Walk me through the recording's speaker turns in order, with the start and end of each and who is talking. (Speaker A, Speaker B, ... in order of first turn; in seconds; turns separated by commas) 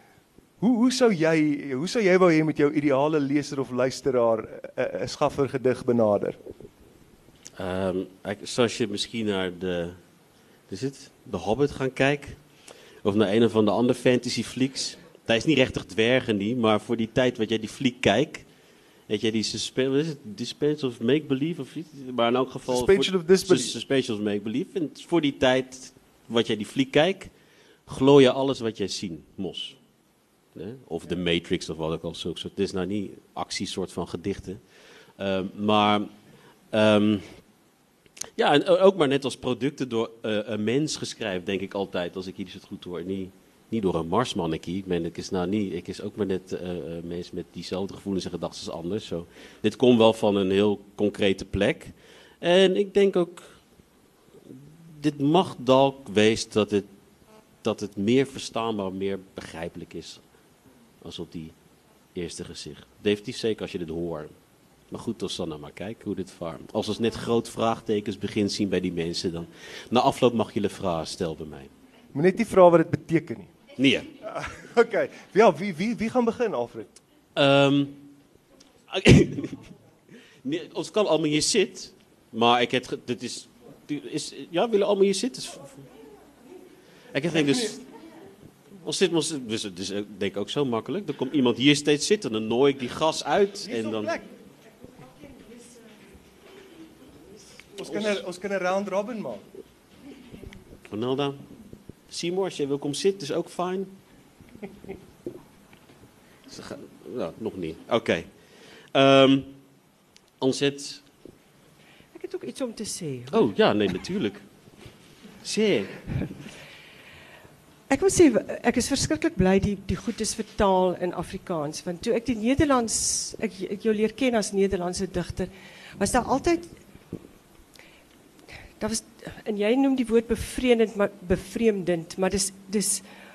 Speaker A: 0.6-6.4, Speaker B: 7.6-10.0, Speaker B: 10.7-12.4, Speaker B: 13.0-18.5, Speaker B: 19.1-27.3, Speaker A: 22.7-23.8, Speaker B: 27.9-29.8, Speaker B: 30.6-34.6, Speaker B: 35.2-36.1, Speaker B: 36.7-37.4, Speaker B: 38.4-53.6, Speaker B: 54.9-56.9, Speaker B: 57.6-60.2, Speaker B: 61.0-61.5, Speaker B: 62.1-64.3, Speaker B: 64.9-71.7, Speaker A: 72.1-73.5, Speaker B: 73.8-74.1, Speaker A: 74.3-76.9, Speaker B: 77.4-78.0, Speaker B: 78.9-79.6, Speaker B: 80.4-85.8, Speaker B: 87.1-87.9, Speaker B: 88.7-94.1, Speaker A: 93.7-94.3, Speaker A: 97.8-99.4, Speaker B: 100.9-101.4, Speaker B: 102.1-104.0, Speaker B: 106.5-108.3, Speaker B: 108.9-109.6, Speaker B: 110.4-111.0, Speaker C: 112.2-113.4, Speaker B: 113.3-114.5, Speaker B: 115.4-116.3, Speaker C: 117.9-126.7, Speaker C: 128.8-133.0